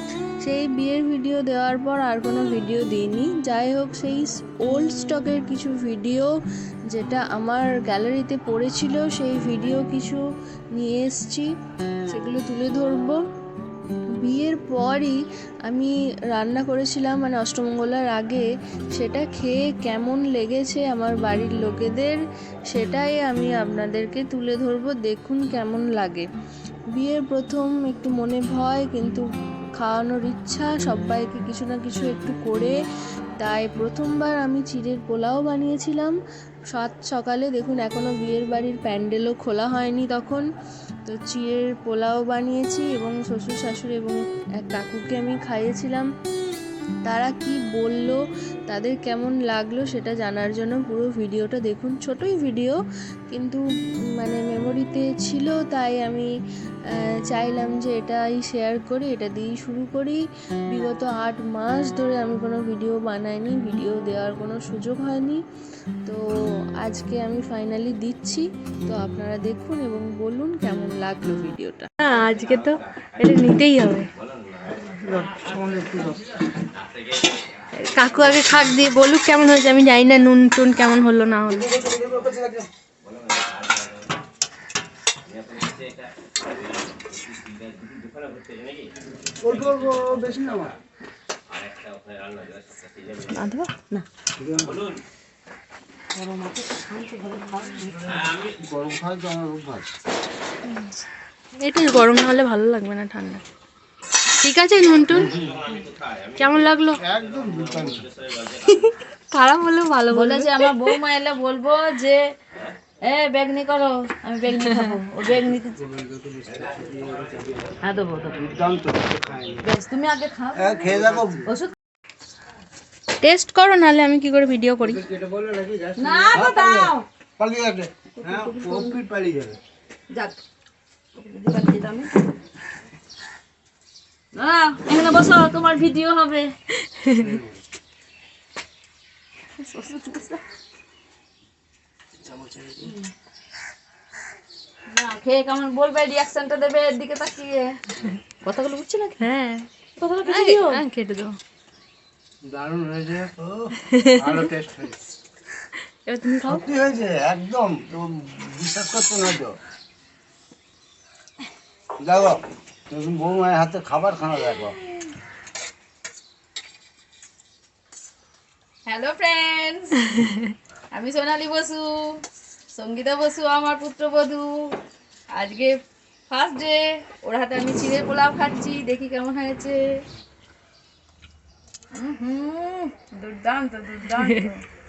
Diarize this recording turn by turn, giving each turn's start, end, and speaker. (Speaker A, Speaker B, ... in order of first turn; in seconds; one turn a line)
Speaker A: 0.4-6.3
Speaker A: 6.9-10.2
Speaker A: 10.7-11.5
Speaker A: 12.1-13.2
Speaker A: 14.2-26.2
Speaker A: 26.9-29.2
Speaker A: 29.8-32.7
Speaker A: 33.4-36.1
Speaker A: 36.7-40.4
Speaker A: 41.0-46.1
Speaker A: 47.0-52.8
Speaker A: 53.3-53.6
Speaker A: 54.2-56.3
Speaker A: 56.9-65.4
Speaker A: 66.8-71.9
Speaker B: 72.0-74.1
Speaker C: 74.8-76.3
Speaker B: 77.8-81.8
Speaker C: 81.6-82.7
Speaker B: 87.8-88.4
Speaker C: 89.4-90.8
Speaker B: 92.3-93.1
Speaker D: 93.3-94.0
Speaker C: 94.4-94.9
Speaker D: 96.1-98.1
Speaker C: 98.2-99.9
Speaker B: 100.7-100.9
Speaker B: 101.6-103.4
Speaker B: 104.4-105.4
Speaker C: 105.1-105.6
Speaker B: 106.1-107.0
Speaker C: 107.0-108.1
Speaker B: 108.4-110.9
Speaker D: 110.1-112.3
Speaker D: 113.0-115.8
Speaker C: 115.8-117.7
Speaker D: 117.8-118.5
Speaker C: 118.4-119.7
Speaker D: 119.6-121.7
Speaker C: 120.5-121.5
Speaker B: 123.2-125.0
Speaker C: 124.8-129.6
Speaker D: 126.0-127.0
Speaker D: 128.2-128.9
Speaker B: 128.3-128.8
Speaker D: 130.1-130.4
Speaker D: 131.1-132.1
Speaker D: 134.3-136.5
Speaker B: 137.0-137.3
Speaker C: 137.2-137.6
Speaker D: 139.6-140.4
Speaker C: 142.2-142.9
Speaker D: 144.9-147.8
Speaker D: 148.4-149.2
Speaker B: 149.2-149.7
Speaker D: 150.0-150.8
Speaker B: 150.2-151.4
Speaker C: 152.4-155.0
Speaker B: 153.8-154.4
Speaker B: 156.1-156.6
Speaker C: 156.4-159.6
Speaker C: 162.0-164.8
Speaker D: 168.8-170.3
Speaker D: 170.9-172.1
Speaker D: 172.7-174.6
Speaker D: 175.3-175.8
Speaker D: 176.3-179.8
Speaker D: 181.9-184.6
Speaker B: 184.2-184.5